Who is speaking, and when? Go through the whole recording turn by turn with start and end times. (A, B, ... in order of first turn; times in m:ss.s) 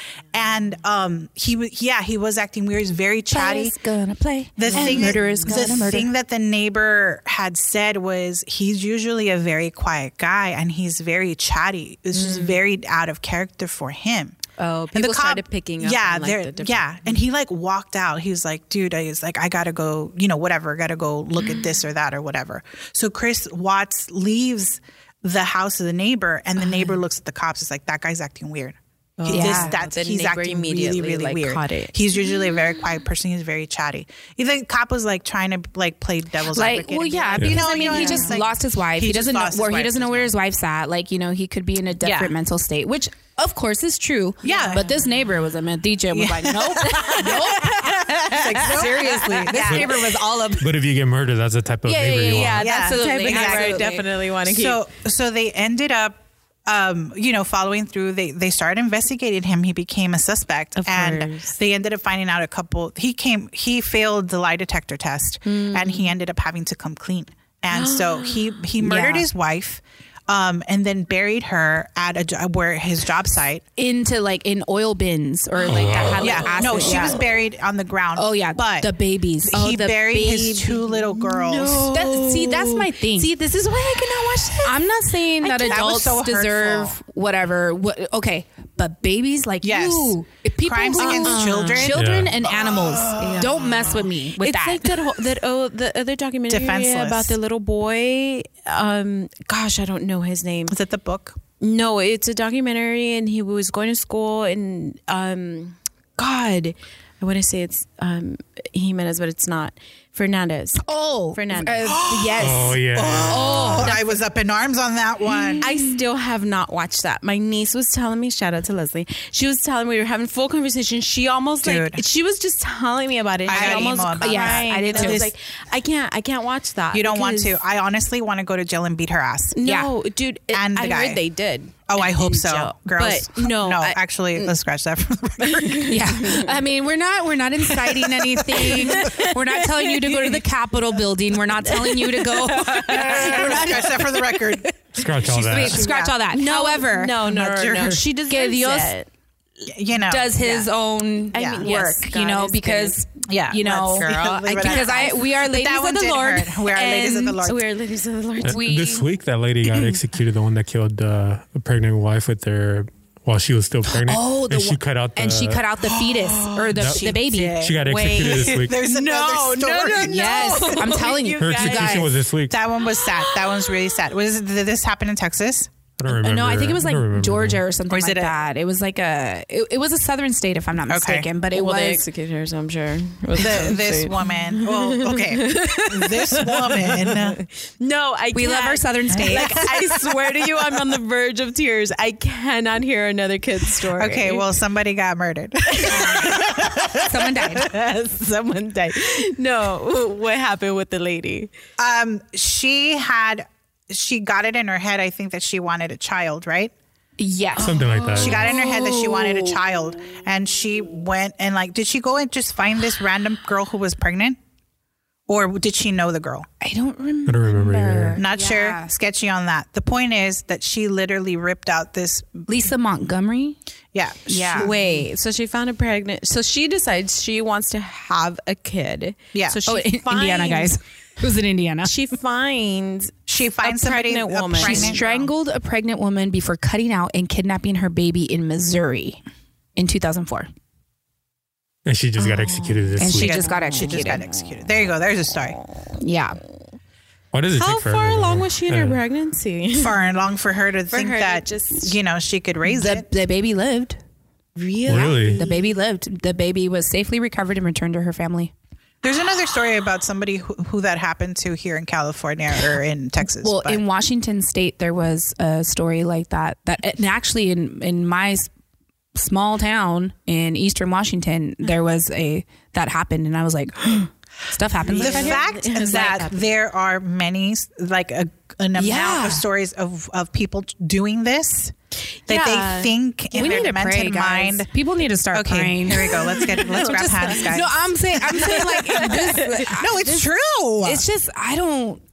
0:00.3-0:03.8 A
0:03.3-0:06.1 B
0:04.6-0:14.4 A
0:04.7-0:05.5 C
0:12.1-0:12.6 C
0:14.6-0:16.9 C
0:14.9-0:40.3 A
0:29.2-0:32.0 C
0:29.3-0:29.7 B
0:36.5-0:50.5 B
0:37.6-0:38.4 C
0:42.0-0:42.3 A
0:44.4-0:44.9 A
0:44.4-0:45.2 C
0:46.1-0:50.6 A
0:48.3-0:49.8 C
0:50.6-0:52.6 D
0:51.8-0:54.0 B
0:52.2-0:54.8 C
0:52.6-1:13.6 A
1:00.8-1:01.5 C
1:05.5-1:06.1 C
1:07.7-1:08.6 C
1:08.8-1:09.3 B
1:13.8-1:17.2 B
1:15.6-1:16.3 D
1:15.8-1:17.4 C
1:16.2-1:18.9 A
1:18.2-1:20.8 B
1:19.4-1:21.9 A
1:20.9-1:26.0 C
1:21.9-1:23.3 B
1:24.6-1:34.9 B
1:25.6-1:27.0 A
1:29.6-1:32.1 A
1:31.0-1:32.0 C
1:31.9-1:32.3 D
1:33.1-1:40.8 C
1:36.5-1:37.4 A
1:40.7-1:41.4 A
1:41.6-1:51.9 C
1:50.8-1:54.0 B
1:51.8-1:55.7 A
1:52.4-1:54.0 D
1:55.6-2:07.6 C
2:01.6-2:02.0 A
2:03.5-2:05.3 A
2:03.5-2:05.3 B
2:06.9-2:09.6 A
2:09.6-2:14.5 C
2:09.6-2:09.9 B
2:10.5-2:11.2 A
2:11.9-2:16.0 A
2:15.4-2:16.5 C
2:15.9-2:24.1 B
2:17.7-2:20.4 C
2:21.6-2:24.0 C
2:22.8-2:26.1 A
2:25.0-2:25.9 D
2:25.2-2:27.2 B
2:26.1-2:29.1 C
2:27.2-2:28.1 A
2:27.8-2:28.9 B
2:29.7-2:30.4 A
2:29.9-2:36.5 B
2:30.4-2:30.7 C
2:31.3-2:33.0 C
2:31.3-2:31.7 A
2:33.3-2:37.7 A
2:33.9-2:35.3 C
2:36.1-2:38.8 C
2:38.4-2:45.6 D
2:38.4-2:39.1 B
2:43.9-2:47.7 B
2:46.2-2:46.5 C
2:46.2-2:51.0 A
2:46.8-2:48.8 D
2:47.8-2:52.2 C
2:50.0-2:52.1 B
2:51.4-2:52.6 D
2:52.5-2:55.7 A
2:52.9-2:53.8 C
2:56.0-2:57.6 D
2:56.1-3:02.0 B
2:57.9-2:58.4 A
3:00.9-3:01.3 A
3:01.5-3:14.5 C
3:03.3-3:07.4 A
3:08.4-3:09.7 B
3:09.1-3:10.4 A
3:13.9-3:17.4 A
3:15.7-3:16.8 C
3:17.0-3:17.7 B
3:17.4-3:21.5 C
3:21.8-3:26.7 A
3:27.2-3:29.6 B
3:27.6-3:28.6 D
3:28.2-3:34.4 A
3:35.3-3:36.5 A
3:36.6-3:38.9 B
3:37.3-3:38.2 D
3:38.2-3:42.5 A
3:42.5-3:43.6 B
3:43.9-3:44.7 A
3:44.3-3:44.8 B
3:44.6-3:50.8 C
3:49.3-3:49.6 A
3:49.6-3:51.9 B
3:51.8-3:55.3 C
3:53.3-3:55.0 A
3:54.6-3:59.2 B
3:59.8-4:00.5 B
4:01.8-4:03.5 D
4:02.2-4:02.8 C
4:03.0-4:04.3 B
4:03.1-4:05.6 A
4:03.7-4:04.3 C
4:06.0-4:06.4 B
4:07.3-4:09.0 D
4:07.5-4:10.0 C
4:09.8-4:13.1 A
4:10.9-4:12.0 C
4:12.7-4:14.0 B
4:14.6-4:15.6 C
4:14.9-4:15.4 D
4:14.9-4:18.5 B
4:19.0-4:23.8 A
4:23.4-4:28.5 B
4:29.1-4:35.4 B
4:34.8-4:36.5 C
4:34.9-4:41.7 A
4:38.8-4:39.4 B
4:42.3-4:43.7 C
4:42.3-4:44.7 A
4:43.3-4:50.3 B
4:45.3-4:51.0 A
4:46.0-4:47.7 C
4:48.3-4:49.7 C
4:50.8-4:52.0 B